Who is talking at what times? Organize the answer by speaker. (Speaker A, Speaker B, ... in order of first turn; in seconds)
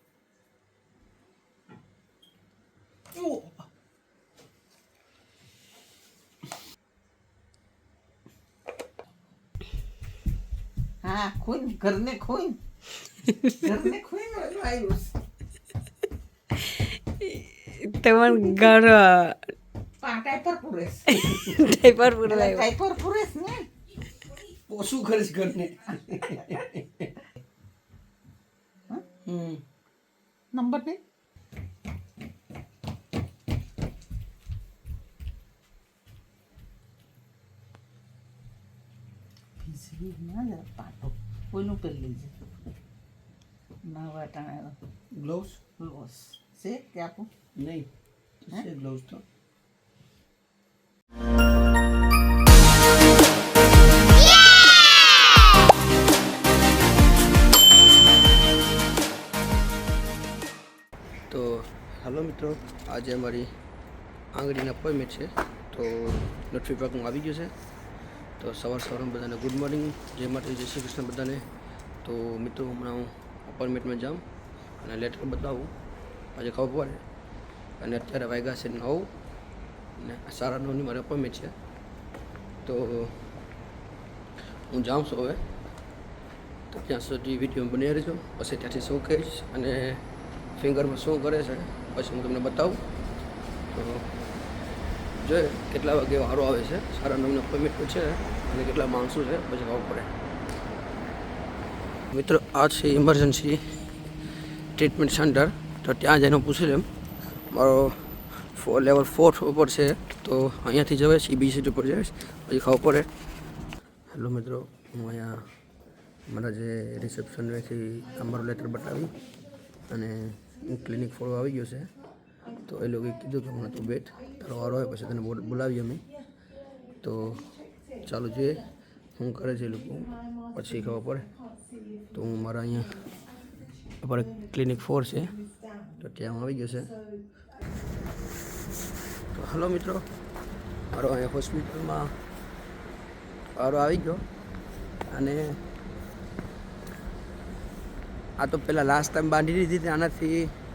Speaker A: 3.2-3.5, 24.7-27.1, 29.2-29.6, 45.1-45.6, 47.6-47.9, 48.5-49.2, 61.3-63.5, 64.3-67.5, 68.4-71.4, 72.0-74.2, 74.8-75.7, 76.4-77.0, 77.8-79.1, 80.0-81.5, 82.7-83.2, 84.7-85.4, 86.7-90.0, 90.6-92.8, 93.7-94.0, 95.2-100.1, 102.1-103.6, 104.8-106.9, 107.5-108.0, 108.6-113.1, 114.1-115.4, 116.3-119.1, 119.9-121.9, 122.7-126.0, 127.0-127.4, 128.1-128.6, 129.2-131.3, 132.1-132.9, 134.0-135.3, 136.0-136.9, 139.3-140.0, 140.9-142.1, 143.6-144.2, 145.1-145.6, 148.4-150.5
Speaker B: 11.0-12.6, 13.6-15.1, 20.0-21.1, 22.2-23.6, 30.5-31.0, 39.6-42.3, 43.9-44.8, 45.8-47.3
Speaker C: 17.4-19.4, 21.2-22.7